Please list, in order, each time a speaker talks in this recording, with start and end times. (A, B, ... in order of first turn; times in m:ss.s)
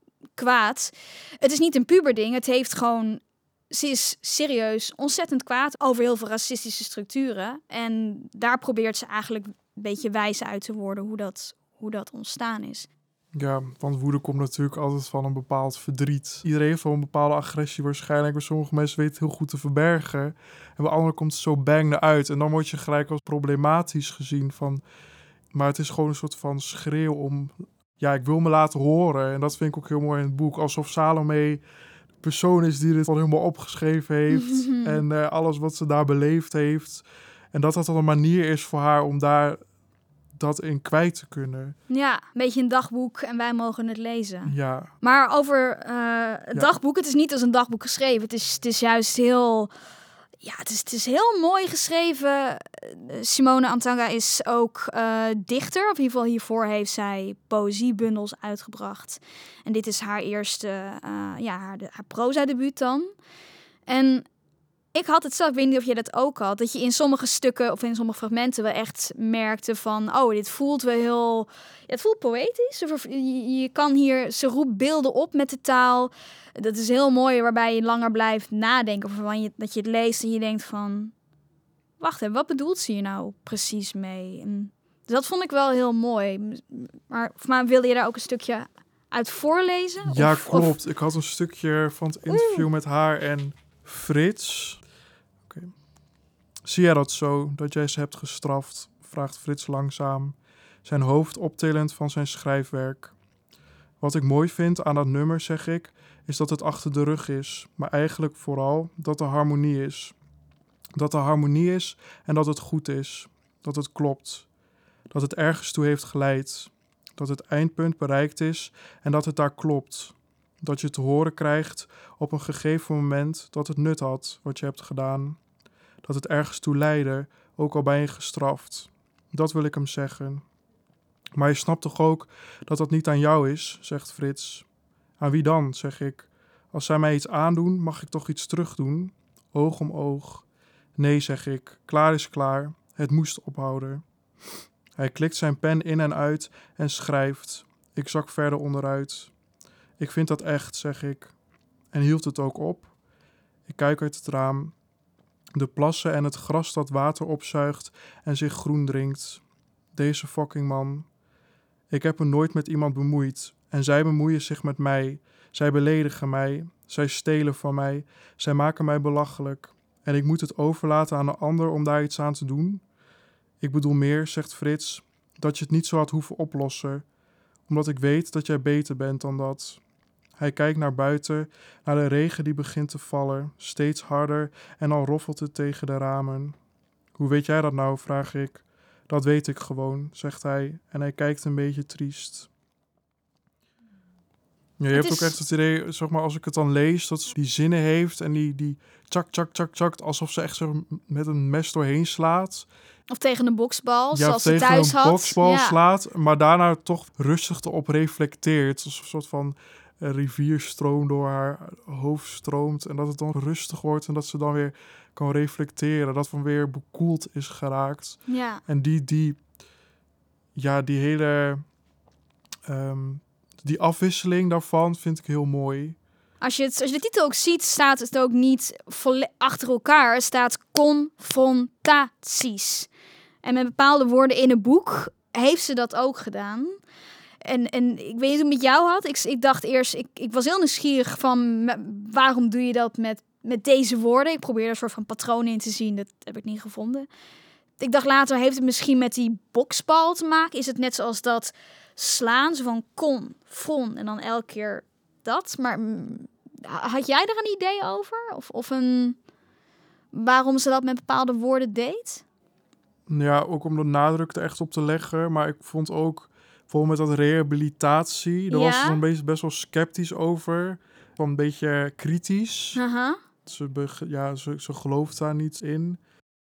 0:00.4-0:12.9 A
0:13.4-0:24.8 B
0:25.5-0:31.6 B
0:32.2-0:39.6 B
0:34.3-0:35.0 A
0:40.4-0:41.8 B
0:41.9-0:49.7 A
0:44.4-0:44.9 B
0:50.4-1:03.1 A
1:03.9-1:04.3 A
1:04.9-1:21.1 A
1:22.0-1:30.7 A
1:30.1-1:34.8 B
1:32.3-1:32.7 A
1:35.5-1:35.7 B
1:36.6-1:43.1 B
1:44.0-1:50.2 B
1:51.0-1:54.5 B
1:55.1-2:05.4 B
2:06.0-2:10.4 B
2:11.4-2:14.7 B
2:15.2-2:20.4 B
2:21.0-2:24.0 B
2:25.0-2:29.3 B
2:30.0-2:31.3 B
2:31.9-2:32.9 B
2:33.7-2:34.7 B
2:35.6-2:39.4 B
2:39.9-2:41.1 B
2:41.9-2:52.8 B
2:53.6-2:57.0 B
2:57.7-2:59.8 B
3:00.4-3:06.6 B
3:07.2-3:12.5 B
3:14.8-3:22.7 B
3:14.9-3:15.4 A
3:23.1-3:25.8 A
3:24.1-3:39.4 B
3:38.3-3:38.6 A
3:40.6-3:41.6 B
3:42.7-3:46.0 B
3:46.4-3:52.9 A
3:53.4-3:56.8 A
3:57.4-4:07.1 A
4:07.8-4:19.2 A
4:20.1-4:22.2 A
4:23.1-4:32.8 B
4:28.5-4:29.0 A
4:32.8-4:33.2 A
4:33.5-4:36.0 B